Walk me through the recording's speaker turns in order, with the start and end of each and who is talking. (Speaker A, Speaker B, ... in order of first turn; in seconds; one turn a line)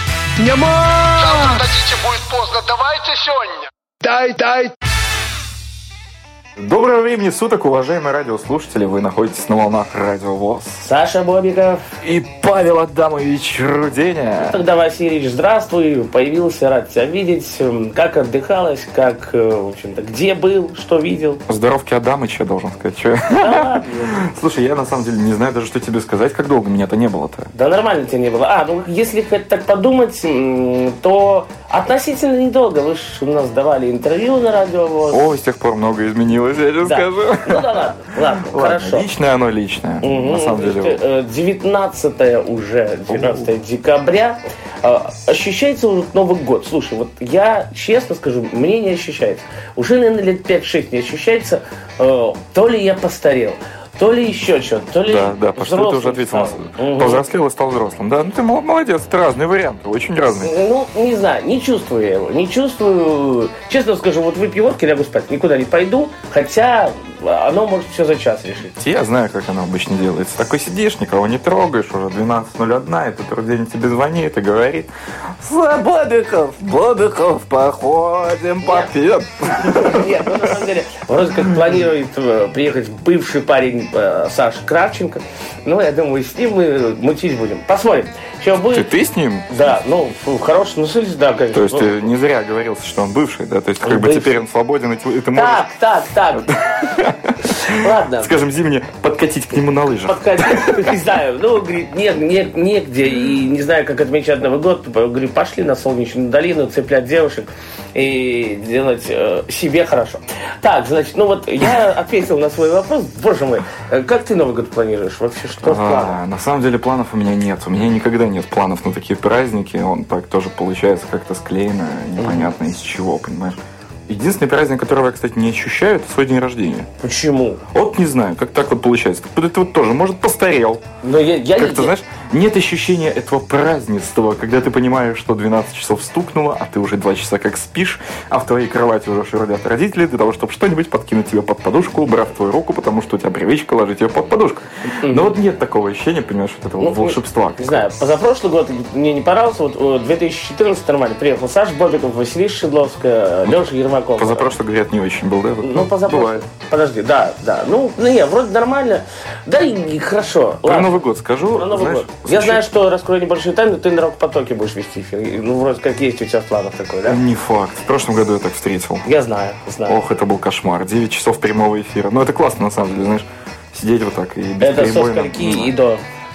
Speaker A: 0.4-2.7
Speaker B: 1.6-3.6
Speaker A: 4.0-4.7
Speaker C: 6.6-10.9
Speaker D: 10.8-11.9
Speaker C: 12.0-14.6
Speaker D: 14.4-21.4
Speaker C: 21.5-27.5
Speaker D: 23.4-24.2
Speaker D: 27.5-35.2
Speaker C: 35.1-41.0
Speaker D: 36.8-39.1
Speaker D: 40.0-57.2
Speaker C: 43.1-43.5
Speaker C: 55.0-60.5
Speaker D: 60.4-68.7
Speaker C: 68.7-80.5
Speaker D: 78.6-78.9
Speaker D: 79.5-88.9
Speaker C: 88.7-89.5
Speaker D: 89.5-92.1
Speaker C: 91.5-95.7
Speaker D: 93.8-94.3
Speaker D: 95.3-96.5
Speaker C: 96.3-101.0
Speaker D: 97.5-98.3
Speaker D: 100.1-116.2
Speaker C: 115.6-126.9
Speaker D: 122.2-122.5
Speaker D: 127.0-127.6
Speaker C: 127.7-130.8
Speaker D: 131.0-131.9
Speaker C: 131.6-147.9
Speaker D: 145.0-145.3
Speaker D: 146.8-154.5
Speaker C: 154.2-156.4
Speaker D: 155.6-160.9
Speaker C: 160.6-162.6
Speaker D: 161.5-167.2
Speaker C: 167.1-169.1
Speaker D: 169.1-170.0
Speaker C: 169.9-175.8
Speaker D: 174.6-176.0